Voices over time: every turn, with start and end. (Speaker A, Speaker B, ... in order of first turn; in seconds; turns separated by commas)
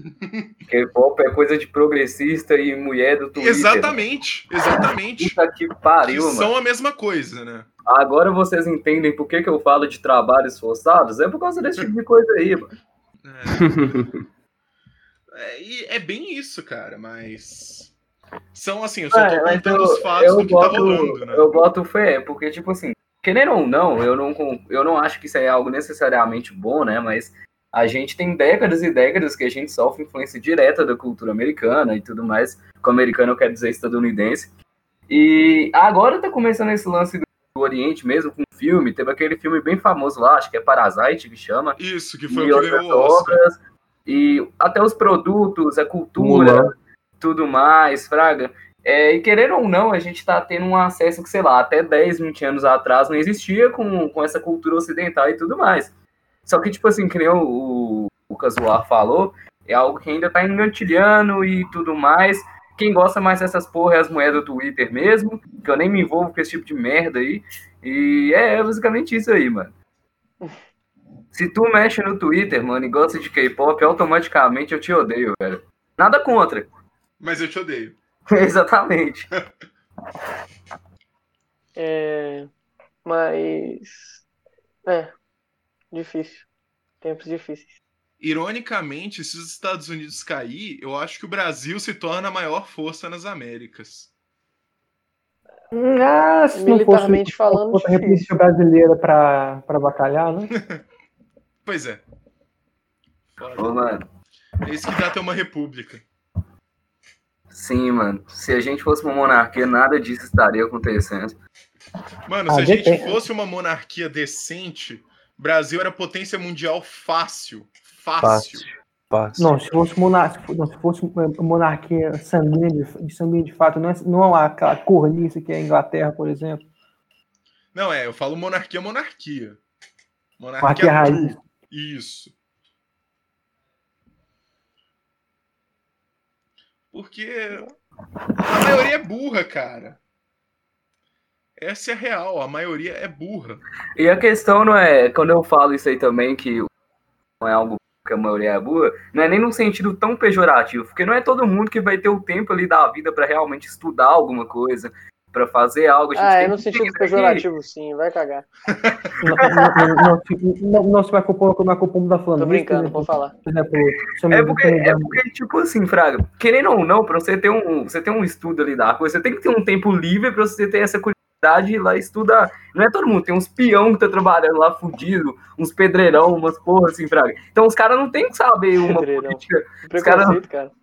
Speaker A: 0.7-4.0, Speaker B: 3.4-5.3, Speaker A: 4.7-6.5, Speaker B: 6.0-7.7, Speaker A: 7.9-12.7, Speaker B: 13.2-14.1, Speaker C: 13.5-14.1, Speaker B: 15.3-17.9, Speaker B: 18.5-21.5, Speaker A: 19.1-34.5, Speaker A: 35.1-41.8, Speaker B: 41.8-43.4, Speaker A: 42.3-55.9, Speaker C: 46.2-46.7, Speaker A: 56.5-69.7, Speaker A: 71.3-76.7, Speaker B: 77.2-78.0, Speaker A: 78.3-79.3, Speaker D: 81.8-82.5, Speaker D: 83.0-84.2, Speaker D: 84.8-85.1, Speaker D: 85.9-86.4, Speaker D: 87.0-87.8, Speaker B: 88.2-94.1, Speaker E: 95.7-100.5, Speaker D: 96.5-98.3, Speaker B: 100.5-100.8, Speaker B: 101.6-102.0, Speaker B: 103.3-103.8, Speaker A: 103.6-104.0, Speaker B: 104.6-106.0, Speaker A: 107.5-111.4, Speaker B: 112.3-118.7, Speaker E: 112.5-113.2, Speaker C: 118.2-119.5, Speaker E: 119.3-126.6, Speaker B: 127.7-129.6, Speaker B: 130.4-132.3, Speaker E: 130.6-131.3, Speaker B: 136.9-137.7, Speaker B: 138.4-140.0, Speaker B: 141.6-143.6, Speaker A: 143.9-146.7, Speaker A: 147.4-157.4, Speaker D: 156.2-158.4, Speaker B: 158.7-159.2, Speaker E: 159.2-165.2, Speaker A: 159.4-160.0, Speaker D: 162.3-163.3, Speaker A: 164.3-180.4, Speaker D: 178.8-180.7